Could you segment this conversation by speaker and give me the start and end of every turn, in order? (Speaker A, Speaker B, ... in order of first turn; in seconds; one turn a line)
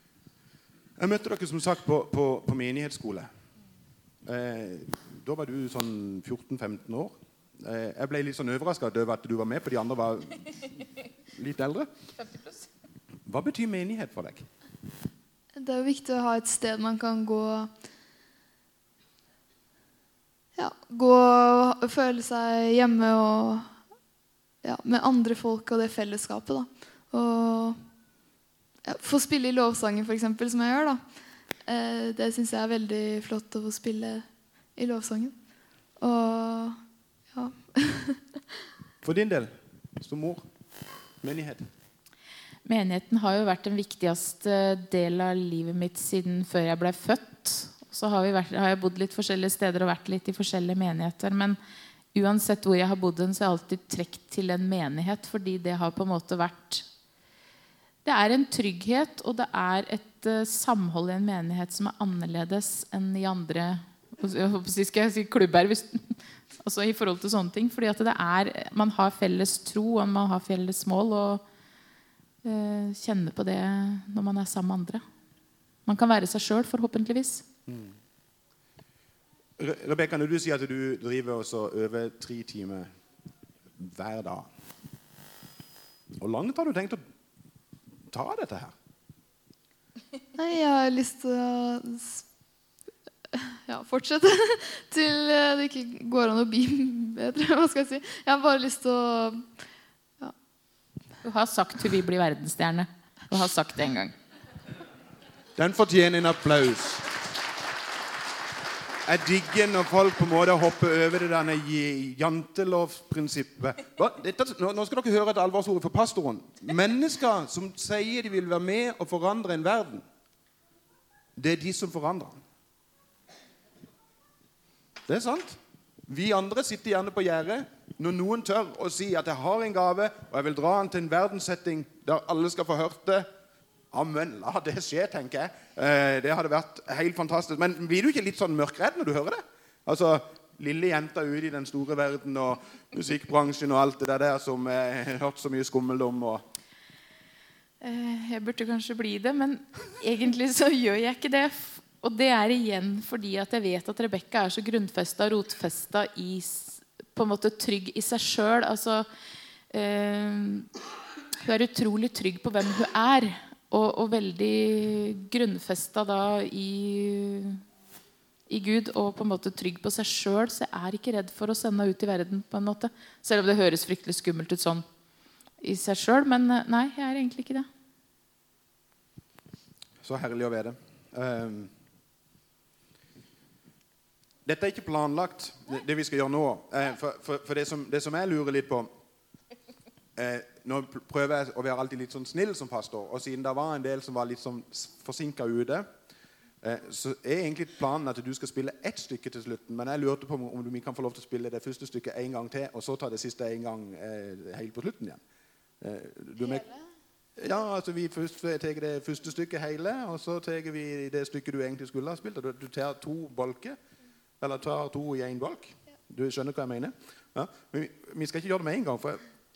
Speaker A: 1.0-3.3
Speaker A: 4.3-10.5
Speaker A: 11.3-11.9
Speaker A: 13.3-14.5
Speaker B: 15.6-17.7
Speaker B: 20.6-23.7
Speaker B: 24.6-27.8
Speaker B: 28.9-31.0
Speaker B: 31.6-34.2
Speaker B: 34.8-35.3
Speaker B: 36.0-36.8
Speaker B: 37.3-38.2
Speaker A: 39.0-40.4
Speaker A: 41.2-41.6
Speaker C: 42.6-51.6
Speaker C: 52.1-56.9
Speaker C: 58.0-71.4
Speaker C: 72.4-75.0
Speaker C: 75.9-77.5
Speaker A: 77.7-78.0
Speaker A: 79.6-82.9
Speaker A: 83.8-84.5
Speaker A: 86.2-87.0
Speaker A: 88.1-88.7
Speaker B: 90.3-92.2
Speaker B: 93.3-99.4
Speaker C: 101.2-104.1
Speaker A: 105.6-107.1
Speaker A: 109.0-120.0
Speaker A: 121.4-122.4
Speaker A: 125.1-133.3
Speaker A: 133.9-146.4
Speaker C: 147.8-159.1
Speaker C: 159.7-160.7
Speaker C: 161.4-167.6
Speaker C: 168.5-174.8
Speaker C: 175.6-177.7
Speaker A: 180.0-181.7
Speaker A: 184.4-188.9
Speaker A: 190.2-195.9
Speaker A: 196.6-205.2
Speaker A: 205.8-206.7
Speaker A: 207.4-213.8
Speaker A: 214.4-219.2